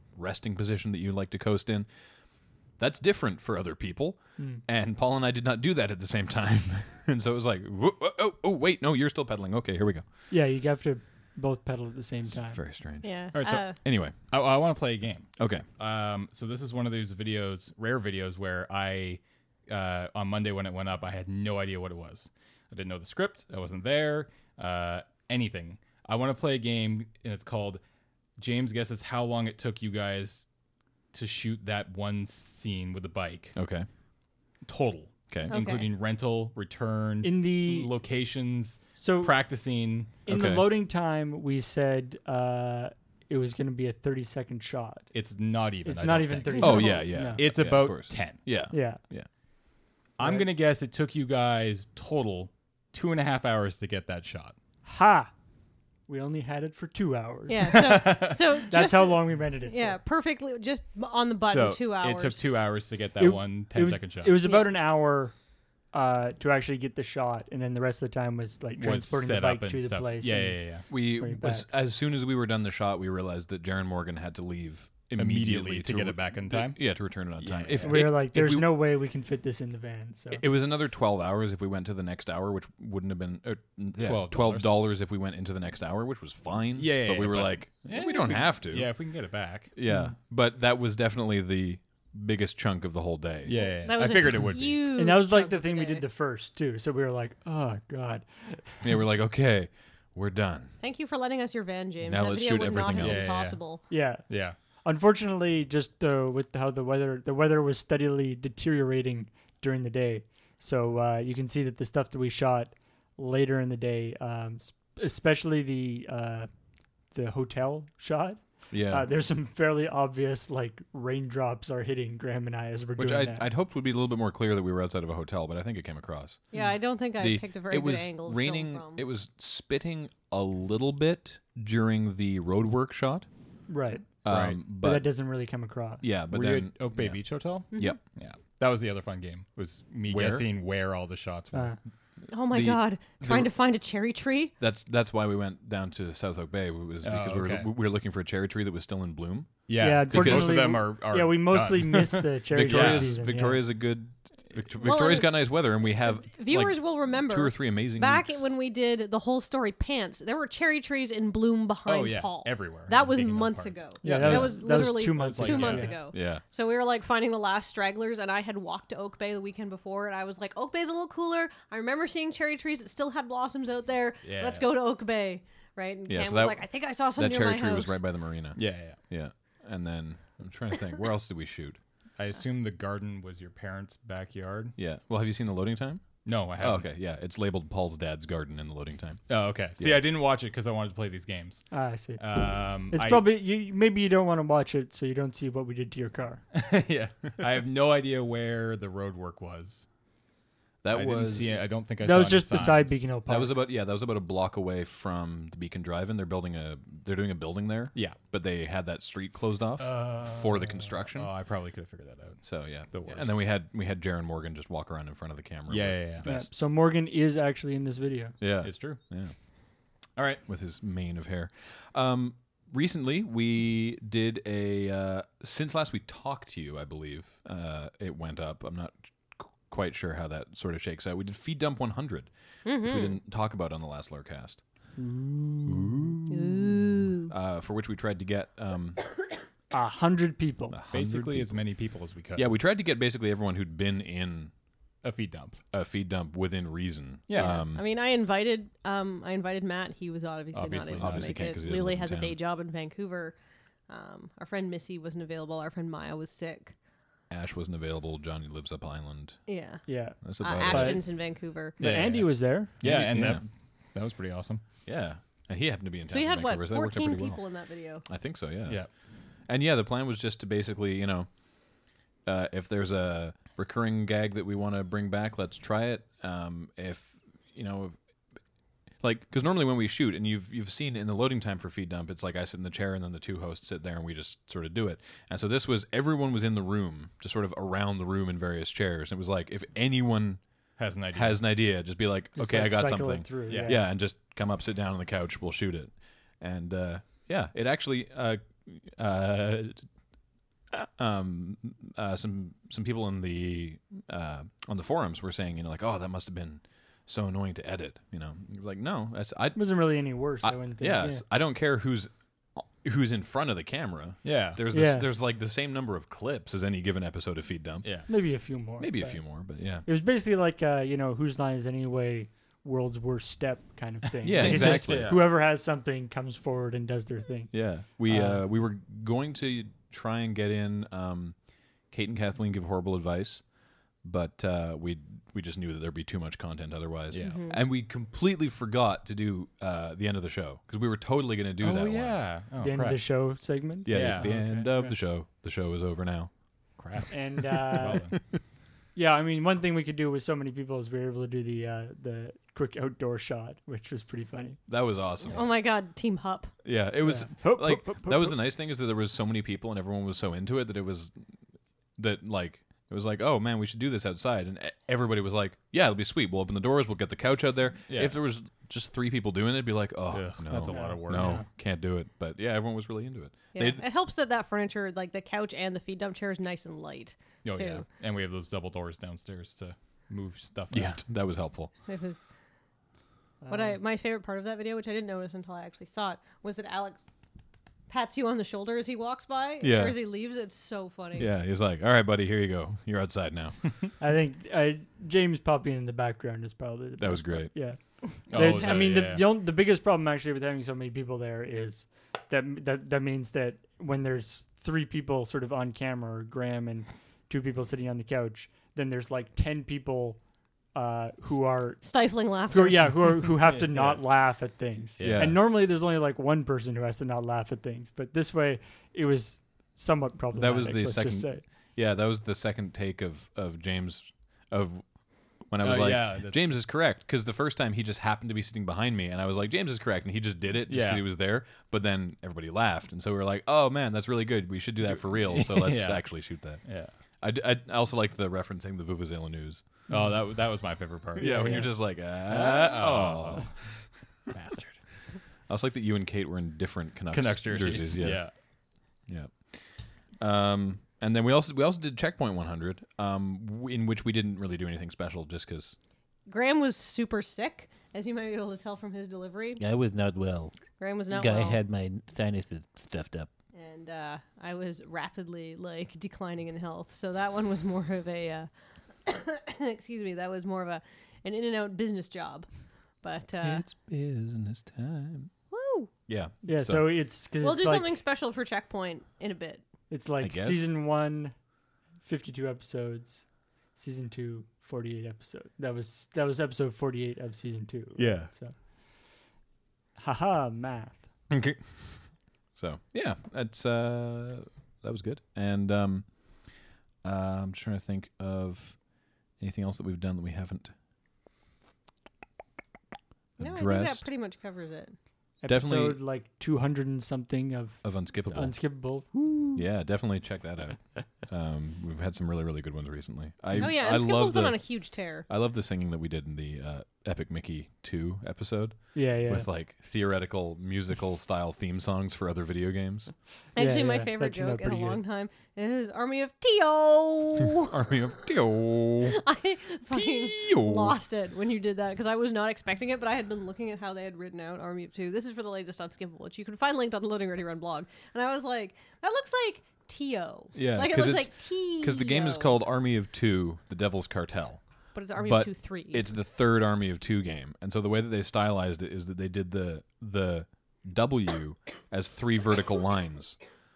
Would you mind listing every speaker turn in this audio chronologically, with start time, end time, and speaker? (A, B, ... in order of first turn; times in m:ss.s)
0:00.2-0:01.9 A
0:02.8-0:10.1 A
0:04.4-0:04.6 B
0:10.3-0:12.6 B
0:12.3-0:14.2 A
0:13.0-0:13.8 C
0:13.3-0:27.8 D
0:15.4-0:15.7 A
0:28.4-0:30.5 D
0:31.1-0:33.6 D
0:33.6-0:33.9 A
0:34.6-0:40.2 D
0:35.3-0:35.6 A
0:35.5-0:35.9 C
0:37.2-0:37.9 B
0:39.0-0:39.4 B
0:40.3-0:45.1 B
0:40.3-0:40.7 A
0:45.1-0:48.4 D
0:45.8-0:47.4 B
0:46.5-0:49.3 A
0:48.7-0:49.0 B
0:50.2-0:54.6 D
0:50.2-0:50.5 B
0:54.8-0:55.3 B
0:56.1-1:00.0 B
0:57.5-1:02.4 C
0:57.7-0:58.4 D
1:01.5-1:04.4 D
1:03.2-1:05.3 B
1:04.4-1:04.7 C
1:05.9-1:11.7 B
1:08.8-1:10.9 D
1:10.9-1:18.7 A
1:15.2-1:18.0 D
1:17.8-1:20.4 B
1:20.3-1:28.9 A
1:24.0-1:24.8 D
1:26.8-1:29.7 D
1:29.7-1:33.6 A
1:29.9-1:30.2 B
1:33.4-1:34.8 D
1:33.6-1:36.1 C
1:35.0-1:38.8 B
1:38.8-1:40.7 A
1:40.8-1:43.8 C
1:42.0-1:43.4 A
1:43.0-1:44.6 D
1:43.9-1:56.5 B
1:57.1-2:03.5 B
1:58.7-1:59.1 A
2:03.0-2:06.5 A
2:06.5-2:09.0 C
2:07.2-2:13.3 A
2:13.7-2:14.2 B
2:14.2-2:15.1 A
2:14.3-2:14.6 D
2:14.7-2:16.1 B
2:16.0-2:17.2 A
2:16.3-2:21.8 D
2:17.7-2:18.0 C
2:17.7-2:18.0 A
2:20.1-2:20.5 A
2:21.5-2:21.8 B
2:22.3-2:24.5 C
2:22.5-2:23.5 A
2:24.6-2:30.8 A
2:27.0-2:27.7 D
2:29.7-2:33.2 D
2:29.8-2:33.6 B
2:32.5-2:38.4 A
2:34.8-2:58.0 C
2:41.9-2:46.0 D
2:44.0-2:46.0 B
2:44.2-2:44.6 A
2:46.1-2:46.4 A
2:54.2-2:54.7 D
2:56.1-3:01.8 A
2:58.6-2:59.0 D
3:02.2-3:04.8 D
3:04.8-3:10.1 A
3:06.2-3:06.9 D
3:09.3-3:13.3 D
3:11.7-3:16.4 B
3:16.5-3:19.9 D
3:20.8-3:21.6 A
3:20.9-3:23.1 D
3:22.0-3:23.6 B
3:23.3-3:31.3 A
3:29.8-3:33.4 D
3:32.4-3:36.6 A
3:35.7-3:36.3 D
3:36.2-3:38.4 B
3:38.4-3:39.3 A
3:38.6-3:39.0 D
3:40.2-3:40.4 D
3:40.5-3:54.6 A
3:52.6-3:53.1 C
3:55.0-3:56.2 B
3:55.7-3:59.0 A
3:56.3-3:57.3 C
3:59.7-4:00.8 B
4:00.7-4:01.6 A
4:00.9-4:02.5 D
4:02.4-4:04.5 A
4:05.0-4:05.6 D
4:05.7-4:07.8 A
4:07.3-4:07.6 D
4:07.3-4:13.4 C
4:10.5-4:11.6 D
4:10.7-4:12.4 A
4:13.9-4:16.7 C
4:17.3-4:19.4 A
4:19.5-4:21.8 C
4:19.9-4:21.0 B
4:20.2-4:21.0 A
4:21.8-4:22.8 B
4:21.8-4:24.6 D
4:22.8-4:23.4 A
4:24.9-4:27.4 A
4:26.1-4:28.0 C
4:28.1-4:28.9 A
4:29.5-4:31.3 A
4:32.2-4:38.0 A
4:39.0-4:50.4 A
4:50.8-4:51.4 D
4:51.1-4:59.9 A
4:52.4-4:53.8 B
4:53.5-4:53.8 D
5:00.7-5:18.1 A
5:09.6-5:11.2 B
5:14.2-5:14.6 D
5:14.7-5:15.1 B
5:17.8-5:18.1 D
5:18.1-5:19.3 B
5:18.8-5:19.9 A
5:19.8-5:28.4 B
5:24.2-5:25.2 A
5:24.3-5:25.3 D
5:27.5-5:42.2 A
5:37.1-5:37.4 D
5:37.2-5:37.6 C
5:41.6-5:43.0 D
5:42.6-5:45.0 B
5:43.8-5:46.3 A
5:43.9-5:44.3 D
5:46.8-5:48.2 D
5:47.1-5:48.2 B
5:49.0-5:54.6 B
5:54.7-5:55.5 A
5:55.3-5:56.5 C
5:56.6-6:01.1 A
5:57.0-5:58.4 B
6:02.0-6:13.8 A
6:07.9-6:08.2 D
6:10.1-6:11.4 D
6:10.5-6:11.5 B
6:13.5-6:17.8 C
6:17.4-6:21.0 D
6:20.7-6:21.7 A
6:21.9-6:22.2 C
6:23.4-6:23.8 B
6:23.5-6:27.0 C
6:27.9-6:31.3 C
6:29.6-6:30.0 A
6:31.2-6:33.6 A
6:34.0-6:50.2 B
6:37.0-6:37.7 A
6:38.3-6:39.3 D
6:38.4-6:38.8 C
6:50.7-7:01.4 B
6:51.8-6:53.2 C
6:53.4-6:54.1 D
6:55.0-6:55.4 D
6:55.0-6:55.4 A
7:00.3-7:19.8 A
7:05.6-7:06.4 D
7:10.7-7:11.0 D
7:15.0-7:16.9 D
7:19.9-7:23.6 D
7:21.2-7:23.6 A
7:21.2-7:21.7 B
7:24.3-7:24.8 D
7:25.5-7:28.3 A
7:27.1-7:28.3 D
7:29.1-7:35.8 A
7:36.3-7:39.6 C
7:39.6-7:40.5 E
7:40.8-7:41.6 C
7:41.1-7:43.3 E
7:43.5-7:48.5 C
7:49.0-7:52.5 C
7:53.0-7:53.6 C
7:53.4-7:55.3 A
7:55.5-7:55.9 C
7:56.1-7:56.9 A
7:56.4-7:58.0 B
7:57.4-7:59.6 C
7:59.9-8:01.4 B
8:00.2-8:00.6 A
8:02.0-8:08.6 B
8:08.0-8:08.3 A
8:10.0-8:11.1 B
8:11.3-8:16.5 A
8:17.0-8:18.9 A
8:19.4-8:20.7 A
8:23.4-8:24.1 A
8:23.4-8:25.0 C
8:25.4-8:29.7 B
8:25.5-8:26.0 A
8:27.8-8:28.7 A
8:29.6-8:43.1 A
8:33.5-8:35.3 C
8:38.9-8:39.5 B
8:43.6-8:45.0 B
8:43.6-8:47.7 C
8:47.5-8:49.2 A
8:49.0-9:02.6 C
8:49.9-8:51.0 A
9:00.6-9:04.6 A
9:05.0-9:06.1 C
9:05.2-9:13.4 A